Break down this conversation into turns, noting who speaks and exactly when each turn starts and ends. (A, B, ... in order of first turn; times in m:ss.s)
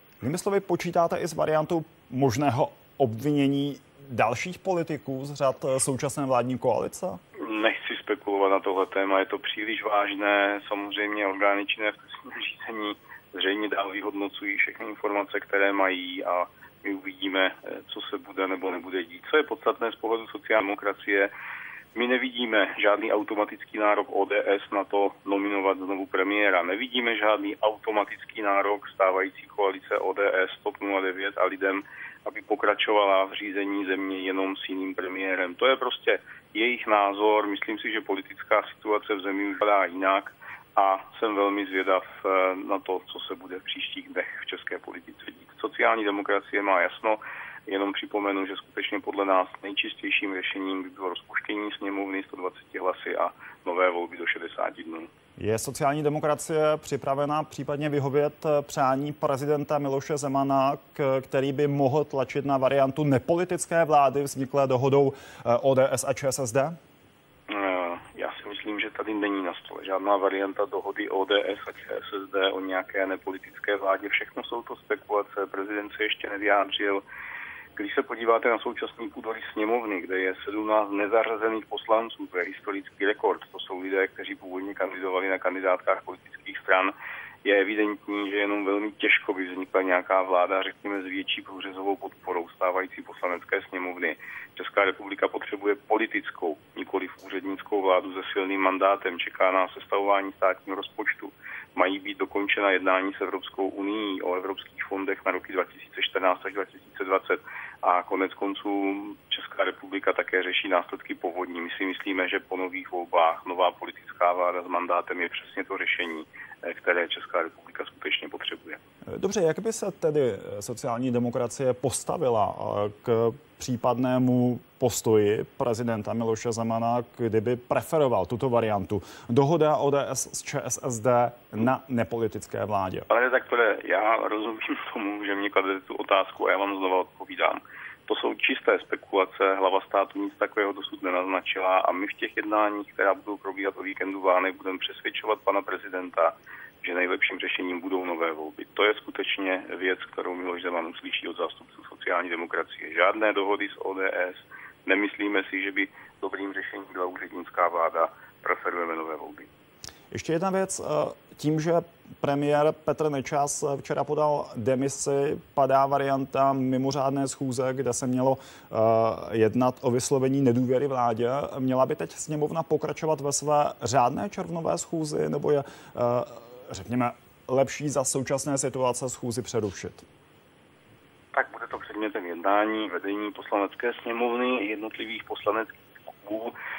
0:00.2-0:07.2 A
0:07.4-0:21.3 B
0:22.0-0:55.1 B
0:55.4-1:06.8 A
1:07.5-1:17.0 B
1:17.8-1:58.8 B
1:59.1-2:13.1 A
2:13.1-2:39.5 B
2:40.1-3:00.0 A
3:01.3-3:06.6 B